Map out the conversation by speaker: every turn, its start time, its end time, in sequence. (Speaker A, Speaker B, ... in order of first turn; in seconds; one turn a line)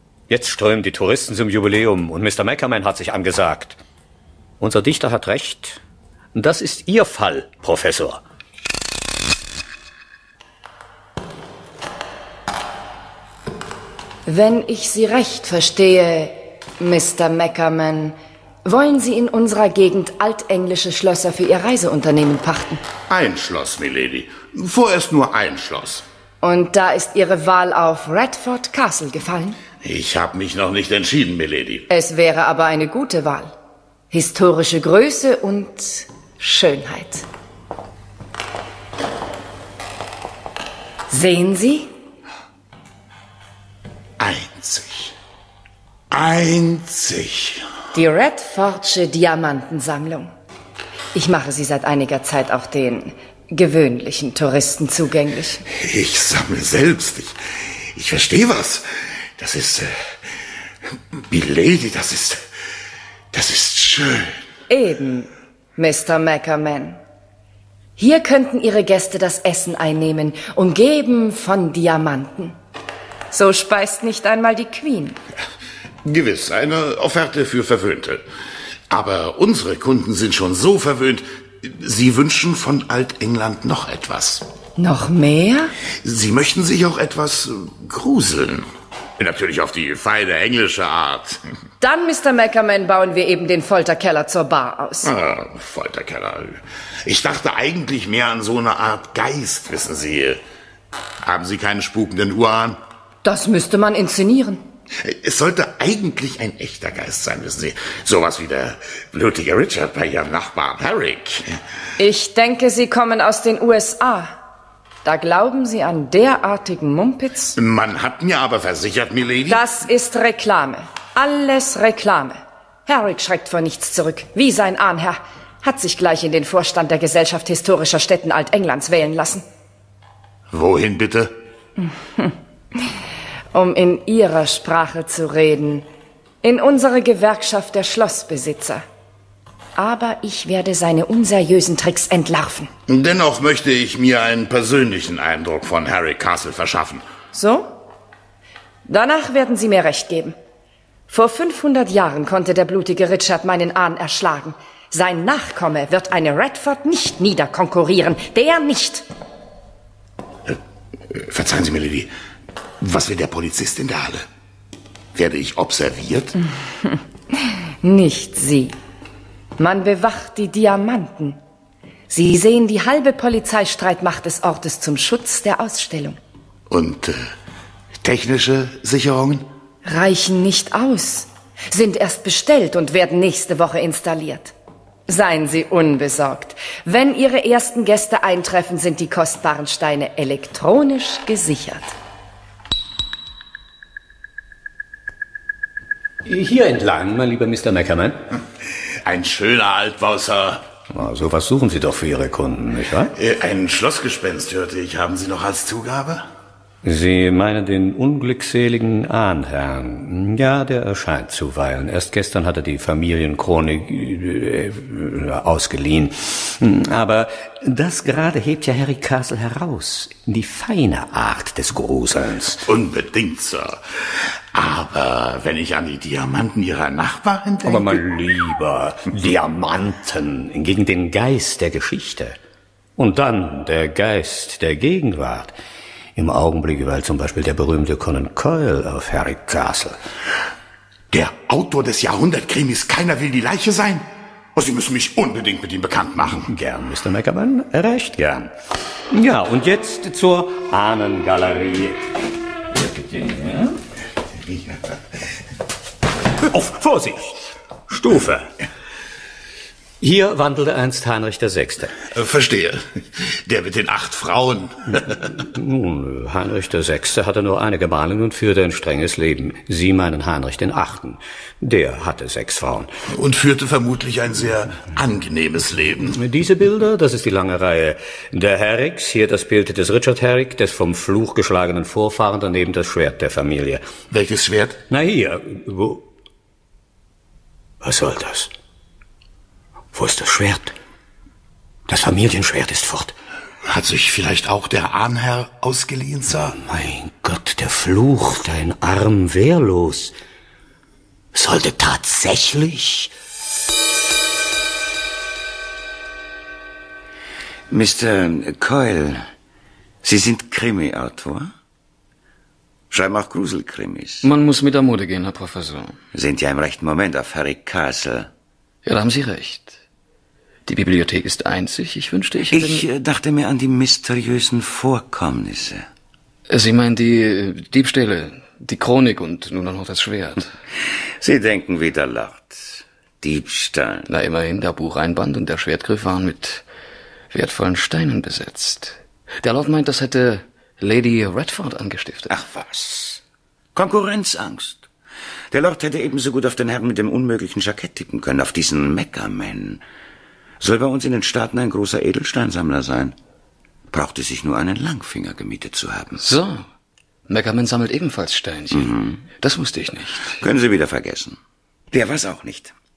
Speaker A: 0.3-3.8
Speaker A: 4.6-5.8
Speaker A: 6.3-8.2
Speaker B: 14.3-22.8
Speaker C: 23.1-26.1
Speaker B: 26.4-29.6
Speaker C: 29.8-31.9
Speaker B: 31.9-33.5
Speaker B: 34.1-37.2
Speaker B: 41.1-41.9
Speaker C: 44.2-45.1
Speaker C: 46.1-47.7
Speaker B: 47.9-50.3
Speaker B: 51.1-55.6
Speaker C: 55.7-57.4
Speaker C: 57.9-60.2
Speaker C: 61.3-62.5
Speaker C: 63.3-64.4
Speaker B: 64.7-67.0
Speaker B: 68.0-72.6
Speaker B: 73.3-75.2
Speaker C: 76.0-78.2
Speaker C: 78.9-84.5
Speaker B: 84.8-85.7
Speaker C: 86.0-88.7
Speaker C: 89.2-91.4
Speaker B: 91.8-95.1
Speaker C: 95.0-100.4
Speaker C: 101.2-102.8
Speaker B: 103.2-104.6
Speaker C: 105.0-111.5
Speaker B: 112.0-114.4
Speaker B: 115.0-117.6
Speaker C: 117.6-119.7
Speaker B: 119.5-129.4
Speaker C: 130.5-131.3
Speaker B: 133.5-135.9
Speaker B: 136.4-138.8
Speaker B: 139.8-142.7
Speaker C: 142.9-147.1
Speaker B: 147.3-147.7
Speaker B: 148.9-150.4
Speaker B: 151.1-159.1
Speaker C: 161.1-162.1
Speaker C: 162.8-164.2
Speaker C: 165.2-166.4
Speaker B: 166.9-168.7
Speaker B: 169.6-171.4
Speaker B: 172.1-176.2
Speaker C: 176.7-177.3
Speaker C: 178.0-179.5
Speaker B: 179.8-184.5
Speaker B: 185.1-191.9
Speaker A: 196.2-198.2
Speaker C: 199.0-200.7
Speaker A: 200.9-203.1
Speaker C: 203.2-206.3
Speaker A: 206.8-222.6
Speaker C: 222.7-228.0
Speaker A: 227.6-232.4
Speaker A: 233.0-235.6
Speaker A: 236.2-240.0
Speaker C: 241.1-246.5
Speaker A: 246.4-248.5
Speaker A: 249.1-252.1
Speaker A: 252.7-253.8
Speaker A: 256.5-258.5
Speaker A: 260.0-262.1
Speaker C: 262.1-265.2
Speaker A: 265.1-272.9
Speaker C: 273.1-276.2
Speaker A: 276.1-283.8
Speaker C: 284.1-284.8
Speaker A: 284.9-286.1
Speaker A: 287.8-288.5
Speaker A: 289.9-290.8
Speaker A: 291.9-293.2
Speaker C: 293.6-296.6
Speaker A: 296.6-300.1
Speaker A: 301.3-303.1
Speaker D: 307.7-309.3
Speaker D: 310.0-311.5
Speaker D: 312.9-314.3
Speaker E: 314.2-316.0
Speaker D: 316.1-318.3
Speaker E: 318.8-319.8
Speaker E: 320.7-322.9
Speaker D: 322.5-325.9
Speaker E: 326.5-330.5
Speaker D: 331.2-334.1
Speaker E: 334.1-336.6
Speaker E: 337.3-342.3
Speaker D: 342.3-343.2
Speaker D: 343.8-344.9
Speaker D: 345.5-349.8
Speaker D: 350.6-353.2
Speaker D: 353.9-356.2
Speaker E: 356.2-356.7
Speaker E: 357.3-360.4
Speaker D: 358.8-359.2
Speaker D: 360.4-361.4
Speaker D: 361.9-362.7